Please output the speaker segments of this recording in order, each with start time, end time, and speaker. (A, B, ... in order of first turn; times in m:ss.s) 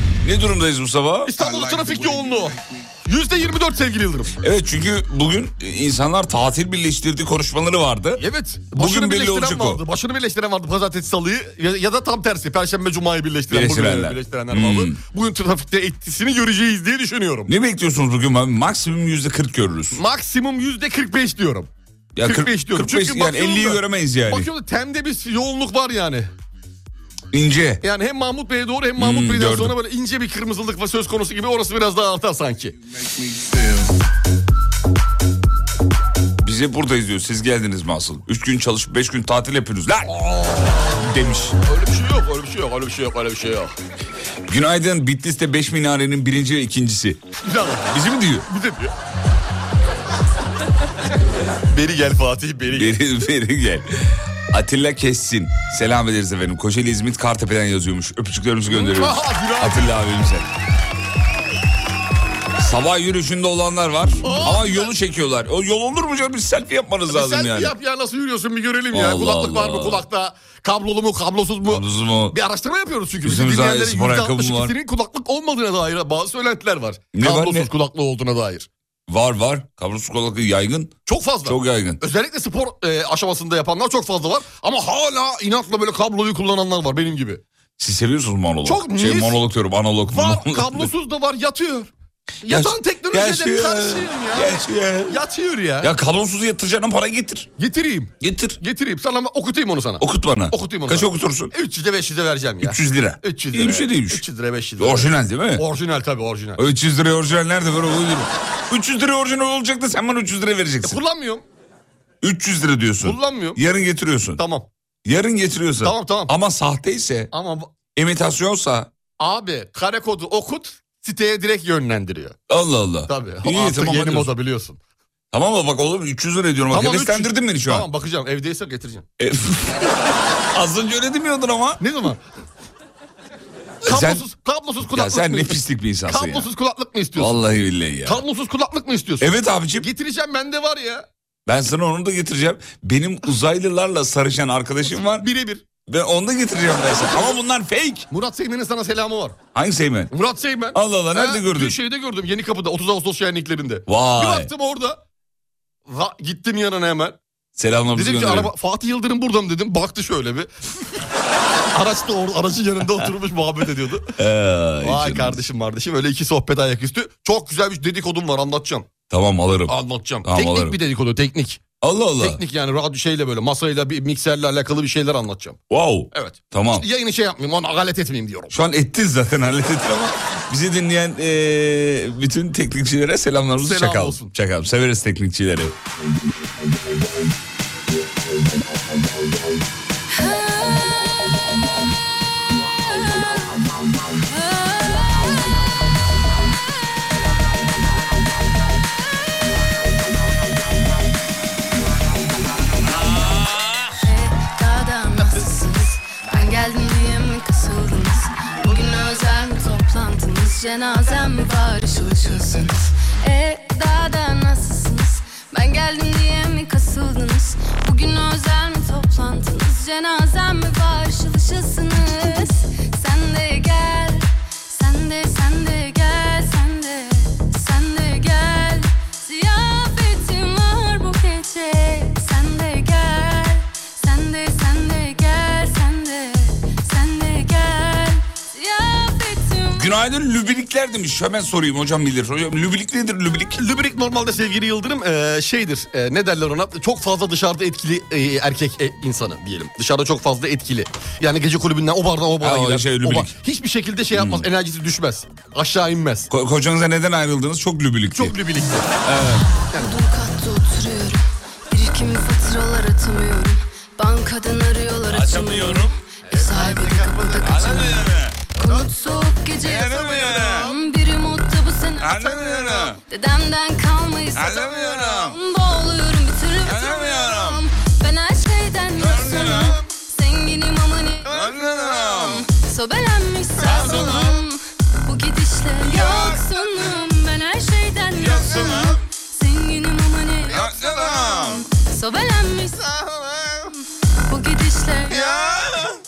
0:00.2-0:01.4 A
0:01.2-0:04.4 B
0:04.4-0:09.8 A
0:08.2-0:17.5 B
0:13.5-0:15.0 A
0:17.5-0:20.0 A
0:19.9-0:21.7 B
0:22.2-0:24.5 A
0:22.2-0:26.3 B
0:27.3-0:27.8 A
0:27.8-0:32.8 B
0:29.0-0:29.8 A
0:36.4-0:41.6 A
0:40.2-0:40.7 B
0:41.6-0:43.8 B
0:44.5-0:47.2 A
0:47.4-0:48.9 B
0:47.9-0:48.5 A
0:51.7-0:53.0 B
0:52.7-1:00.5 A
0:58.7-0:59.9 B
1:02.6-1:07.7 A
1:04.2-1:04.9 B
1:07.1-1:18.7 B
1:08.9-1:10.1 A
1:11.7-1:12.4 A
1:13.2-1:14.7 A
1:17.1-1:17.7 A
1:19.1-1:20.9 A
1:21.1-1:27.4 B
1:21.4-1:22.0 A
1:27.8-1:30.9 A
1:28.6-1:29.4 B
1:30.1-1:31.9 B
1:32.4-1:35.9 B
1:32.4-1:35.2 A
1:35.8-1:37.5 A
1:37.6-1:46.6 B
1:38.2-1:38.6 A
1:40.0-1:41.5 A
1:42.6-1:44.2 A
1:44.8-1:45.6 A
1:46.6-1:51.0 A
1:50.8-1:51.4 B
1:52.2-1:54.4 A
1:53.0-1:53.6 B
1:54.4-1:54.7 B
1:55.0-1:57.3 A
1:55.8-1:56.3 B
1:57.3-1:57.7 B
1:58.0-1:58.9 A
1:59.2-2:02.4 B
2:02.5-2:04.3 A
2:03.1-2:04.8 B
2:05.3-2:07.9 A
2:06.7-2:09.0 B
2:09.2-2:11.8 A
2:11.8-2:12.2 B
2:13.8-2:14.2 A
2:13.9-2:17.4 B
2:14.9-2:16.5 A
2:17.2-2:18.2 A
2:18.0-2:21.0 B
2:19.2-2:19.9 A
2:21.5-2:25.3 A
2:24.9-2:25.7 B
2:25.9-2:28.1 A
2:28.1-2:29.4 B
2:29.6-2:30.1 A
2:30.1-2:35.0 B
2:30.7-2:31.8 A
2:33.9-2:34.5 A
2:35.9-2:37.2 B
2:37.6-2:38.5 A
2:37.9-2:40.5 B
2:41.7-2:44.1 B
2:44.2-2:45.4 A
2:44.8-2:48.9 B
2:49.1-2:50.8 A
2:49.7-2:51.6 B
2:51.8-2:52.4 A
2:52.2-2:55.6 B
2:55.7-2:56.9 A
2:56.1-2:58.5 B
2:58.5-3:05.8 A
3:03.6-3:04.3 B
3:10.1-3:11.2 C
3:14.2-3:15.4 C
3:22.8-3:24.0 A
3:24.0-3:59.9 C
3:59.7-4:03.6 A
4:03.6-4:16.3 B
4:12.4-4:13.3 A
4:14.1-4:14.5 A
4:16.3-4:18.4 A
4:18.1-4:18.9 B
4:19.0-4:19.5 A
4:19.8-4:32.5 C
4:25.1-4:25.9 A
4:26.3-4:28.0 B
4:27.4-4:28.4 A
4:28.6-4:28.9 B
4:29.6-4:30.7 A
4:32.0-4:33.0 A
4:33.1-4:55.4 C
4:34.3-4:35.4 A
4:36.6-4:37.6 A
4:39.0-4:39.8 A
4:41.2-4:42.5 A
4:43.6-4:44.4 A
4:45.8-4:46.6 A
4:48.2-4:49.0 A
4:50.5-4:51.6 A
4:55.1-4:55.9 A